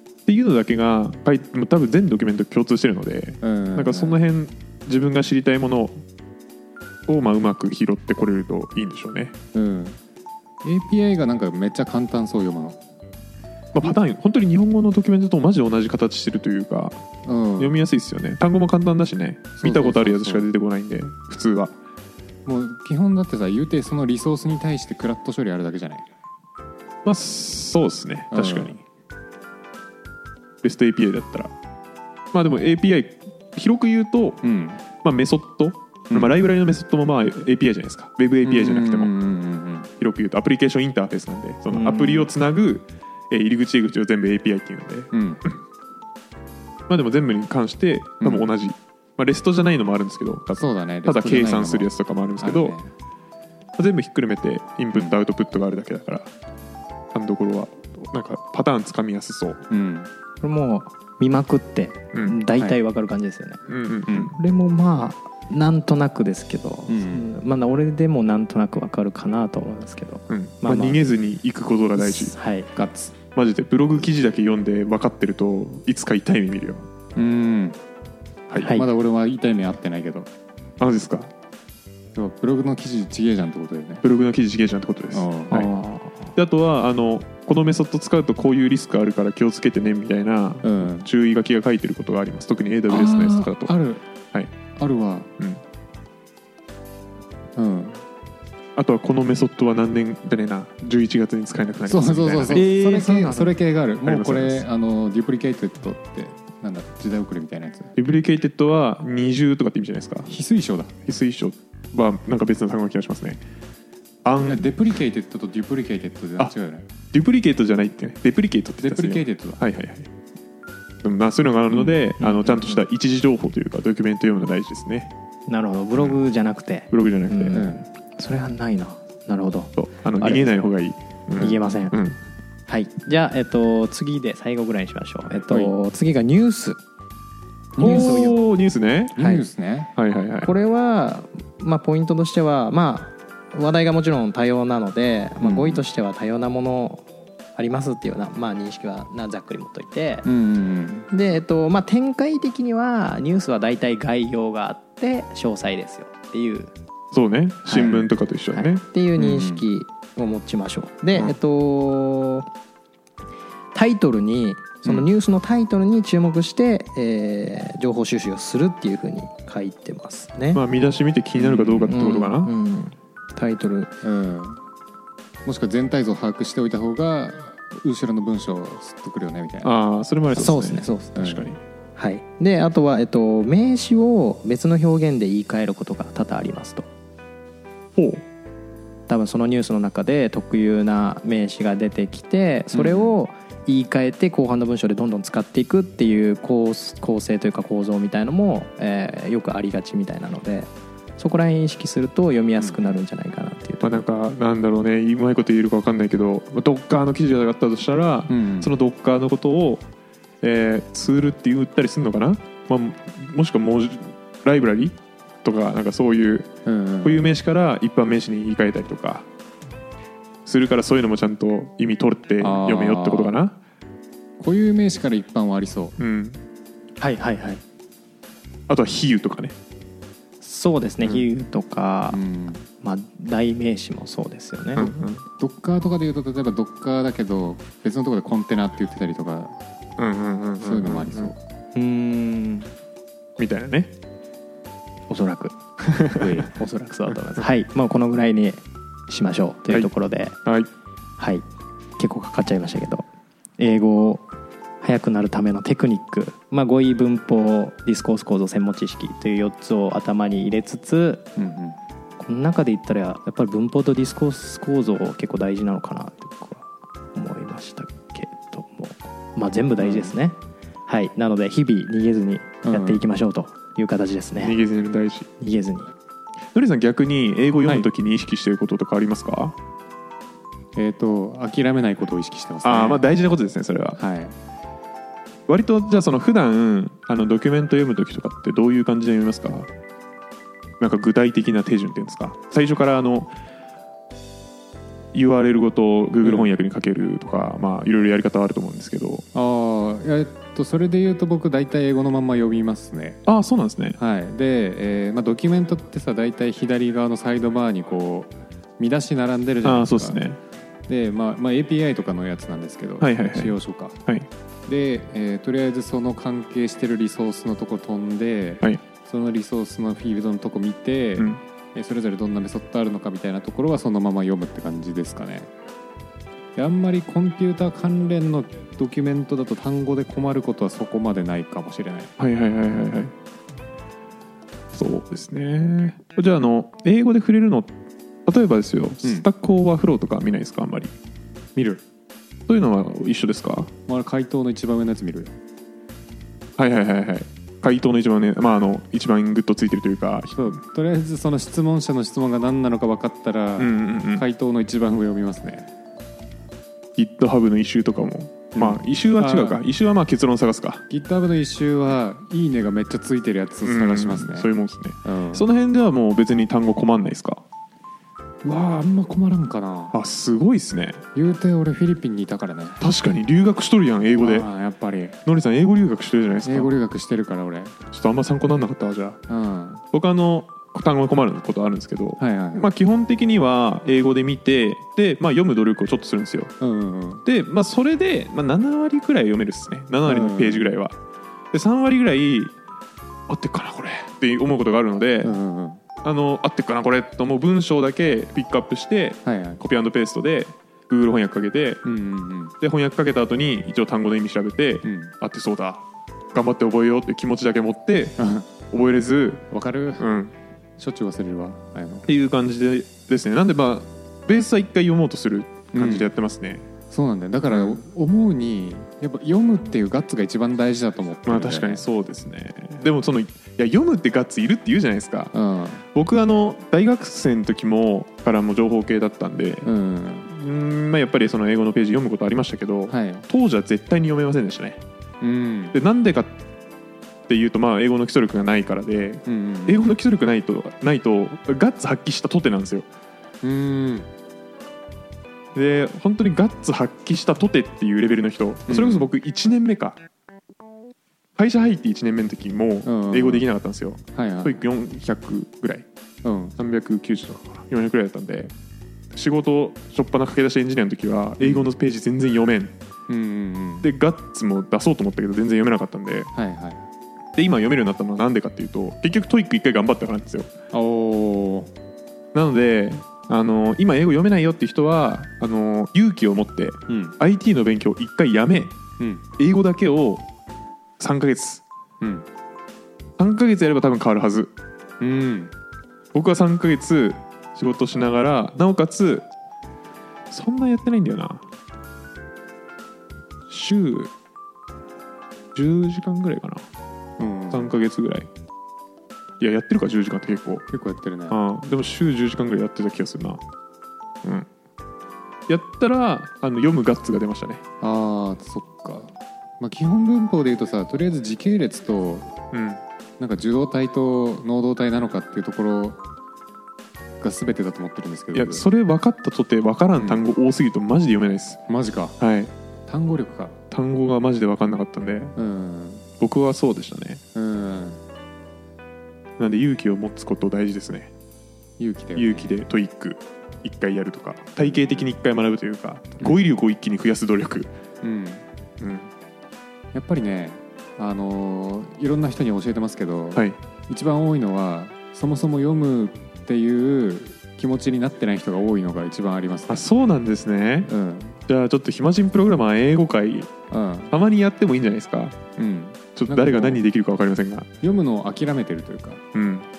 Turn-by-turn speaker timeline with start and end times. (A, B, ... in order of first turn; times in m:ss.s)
0:00.3-0:06.0 A
0:03.4-0:04.2 B
0:07.1-0:09.3 A
0:09.5-0:10.0 B
0:10.6-0:12.8 B
0:13.7-0:17.0 A
0:17.2-0:17.8 B
0:17.6-0:21.7 A
0:19.6-0:20.4 B
0:22.4-0:26.0 B
0:27.0-0:28.8 A
0:28.3-0:28.8 B
0:30.6-0:31.5 A
0:32.3-0:34.4 A
0:34.4-0:34.8 B
0:35.0-0:39.1 A
0:38.4-0:39.9 B
0:40.0-0:45.6 A
0:41.8-0:42.3 C
0:45.1-0:45.4 B
0:46.9-0:52.7 A
0:48.2-0:48.5 B
0:50.6-0:52.9 B
0:53.8-0:56.3 A
0:57.1-0:59.6 A
0:59.7-1:00.1 B
1:00.4-1:11.1 C
1:02.1-1:02.4 A
1:03.7-1:04.3 A
1:04.1-1:04.3 B
1:06.9-1:07.3 B
1:10.3-1:12.3 A
1:12.0-1:12.7 C
1:12.7-1:13.1 B
1:13.3-1:16.8 A
1:17.2-1:17.8 B
1:18.6-1:18.8 C
1:18.6-1:20.3 B
1:20.8-1:21.3 A
1:22.1-1:24.0 B
1:24.0-1:25.7 A
1:25.1-1:25.7 B
1:25.6-1:26.3 C
1:26.3-1:33.7 A
1:30.6-1:31.1 B
1:32.9-1:34.0 B
1:34.8-1:35.3 B
1:37.6-1:38.0 B
1:38.8-1:42.7 A
1:41.8-1:47.9 B
1:42.5-1:43.5 C
1:44.0-1:44.6 A
1:48.0-1:50.3 A
1:50.3-1:51.0 B
1:51.0-1:53.4 A
1:54.2-1:54.7 A
1:54.4-1:56.9 B
1:57.1-2:00.1 A
1:58.8-1:59.6 B
2:01.0-2:05.1 A
2:02.2-2:02.8 C
2:05.5-2:10.5 C
2:06.9-2:07.6 A
2:07.5-2:07.8 B
2:09.8-2:12.2 A
2:11.4-2:12.0 C
2:12.7-2:16.8 C
2:17.8-2:18.3 B
2:17.8-2:18.4 C
2:17.8-2:19.2 A
2:19.2-2:19.9 B
2:19.2-2:19.4 C
2:20.0-2:20.5 A
2:20.4-2:30.3 C
2:25.4-2:25.8 B
2:30.2-2:31.1 B
2:31.1-2:36.7 C
2:37.1-2:38.8 A
2:37.7-2:38.0 C
2:37.7-2:38.1 B
2:38.5-2:42.5 C
2:39.2-2:39.6 B
2:43.7-2:50.6 C
2:50.5-2:52.5 A
2:51.4-2:51.9 B
2:51.9-2:53.9 C
2:54.0-2:54.6 B
2:55.4-2:59.7 B
2:59.6-3:01.6 A
3:00.3-3:01.4 C
3:01.1-3:01.5 B
3:02.0-3:06.8 C
3:08.0-3:08.2 A
3:09.1-3:24.0 C
3:12.7-3:13.1 B
3:22.6-3:23.0 B
3:23.8-3:29.8 A
3:28.3-3:28.7 B
3:30.4-3:36.5 A
3:36.6-3:37.3 B
3:37.0-3:39.2 A
3:40.4-3:43.6 A
3:42.4-3:43.3 B
3:44.4-3:46.0 B
3:46.0-3:46.4 A
3:47.0-3:47.6 C
3:48.7-3:49.5 A
3:50.4-3:52.2 C
3:52.1-3:52.6 B
3:52.8-3:54.9 C
3:54.8-3:55.2 A
3:55.4-3:59.6 B
4:00.0-4:01.3 A
4:00.6-4:01.4 B
4:01.7-4:02.7 C
4:03.4-4:03.9 A
4:05.1-4:10.4 C
4:05.8-4:06.2 A
4:11.2-4:11.4 C
4:12.0-4:13.0 C
4:13.6-4:14.2 C
4:14.8-4:21.2 C
4:21.4-4:21.8 B
4:22.2-4:30.4 C
4:29.8-4:30.2 B
4:30.9-4:34.6 C
4:32.6-4:33.0 B
4:34.4-4:35.3 A
4:35.4-4:35.9 C
4:36.5-4:39.5 A
4:40.8-4:43.0 B
4:42.6-4:44.0 A
4:44.0-4:44.3 B
4:45.5-4:49.7 A
4:50.8-4:53.3 A
4:55.1-4:59.2 A
4:56.2-4:56.5 B
4:59.3-5:03.2 B
5:03.2-5:04.0 A
5:04.0-5:10.2 B
5:09.6-5:10.4 A
5:10.9-5:14.0 B
5:13.0-5:14.3 A
5:14.7-5:25.5 B
5:26.5-5:32.1 B
5:32.2-5:33.1 A
5:34.7-5:37.7 A
5:38.2-5:40.9 A
5:41.6-5:41.8 B
5:42.5-5:43.7 A
5:43.9-5:45.3 B
5:46.6-5:50.6 A
5:50.3-5:55.7 B
5:53.6-5:54.2 A
5:57.0-6:00.8 A
5:58.5-5:59.6 B
6:00.9-6:04.5 B
6:03.6-6:07.4 A
6:05.0-6:05.4 B
6:08.4-6:09.9 B
6:09.9-6:11.0 A
6:11.1-6:12.8 B
6:12.8-6:14.5 A
6:14.2-6:15.2 B
6:15.2-6:16.7 A
6:16.4-6:17.8 B
6:17.9-6:19.2 A
6:19.3-6:19.8 B
6:19.9-6:26.5 A
6:22.2-6:22.7 B
6:26.6-6:27.2 B
6:27.2-6:31.0 A
6:30.0-6:30.7 B
6:31.5-6:32.5 A
6:33.3-6:35.4 A
6:35.2-6:35.8 B
6:36.0-6:41.8 A
6:39.2-6:39.6 B
6:41.8-6:42.5 B
6:42.6-6:45.8 A
6:44.8-6:45.1 B
6:46.3-6:48.2 A
6:48.2-6:48.5 B
6:48.7-6:50.3 A
6:49.5-6:50.1 B
6:50.8-6:52.1 B
6:52.0-6:56.6 A
6:55.7-6:56.1 B
6:56.9-7:01.8 B
6:57.5-6:57.8 A
7:01.2-7:05.3 A
7:05.3-7:05.8 B
7:05.9-7:09.7 A
7:09.6-7:10.3 B
7:10.3-7:14.8 A
7:12.9-7:13.2 B
7:15.2-7:15.8 B
7:15.7-7:16.4 A
7:17.3-7:22.8 A
7:19.2-7:19.9 B
7:23.4-7:24.1 B
7:25.5-7:30.0 A
7:28.7-7:29.1 B
7:31.4-7:35.8 A
7:32.8-7:33.4 B
7:34.1-7:34.6 B
7:36.2-7:36.6 B
7:36.6-7:38.5 A
7:39.1-7:42.7 A
7:41.4-7:41.7 B
7:43.1-7:43.9 B
7:43.8-7:46.3 A
7:46.3-7:46.8 B
7:47.3-7:50.5 A
7:50.7-7:51.7 B
7:52.3-7:58.8 A
7:56.9-7:57.1 B
7:59.0-7:59.2 B
7:59.4-8:00.2 A
8:01.0-8:01.6 A
8:02.0-8:02.2 B
8:03.2-8:04.5 A
8:05.0-8:05.5 B
8:06.1-8:09.2 A
8:10.3-8:11.4 A
8:13.5-8:14.1 A
8:15.5-8:16.6 A
8:17.2-8:17.8 B
8:17.5-8:18.3 A
8:19.4-8:20.7 A
8:20.7-8:21.4 B
8:21.3-8:23.4 A
8:25.5-8:27.6 A
8:27.8-8:32.3 B
8:32.5-8:32.8 A
8:33.2-8:36.0 B
8:37.2-8:38.7 B
8:38.3-8:41.6 A
8:40.0-8:40.2 B
8:41.7-8:42.1 B
8:42.2-8:42.5 A
8:42.9-8:43.6 B
8:43.7-8:45.3 A
8:45.4-8:46.0 B
8:46.2-8:47.2 A
8:47.3-8:48.0 B
8:49.4-8:51.1 A
8:51.8-8:52.6 B
8:52.2-8:57.7 A
8:54.6-8:55.1 B
8:58.0-8:58.4 B
8:58.8-8:59.1 A
8:59.9-9:09.9 B
9:09.7-9:10.9 A
9:10.8-9:11.4 B
9:11.5-9:13.5 A
9:13.7-9:14.1 B
9:14.1-9:15.4 A
9:15.6-9:16.8 B
9:16.1-9:17.7 A
9:17.8-9:19.2 B
9:19.3-9:19.7 A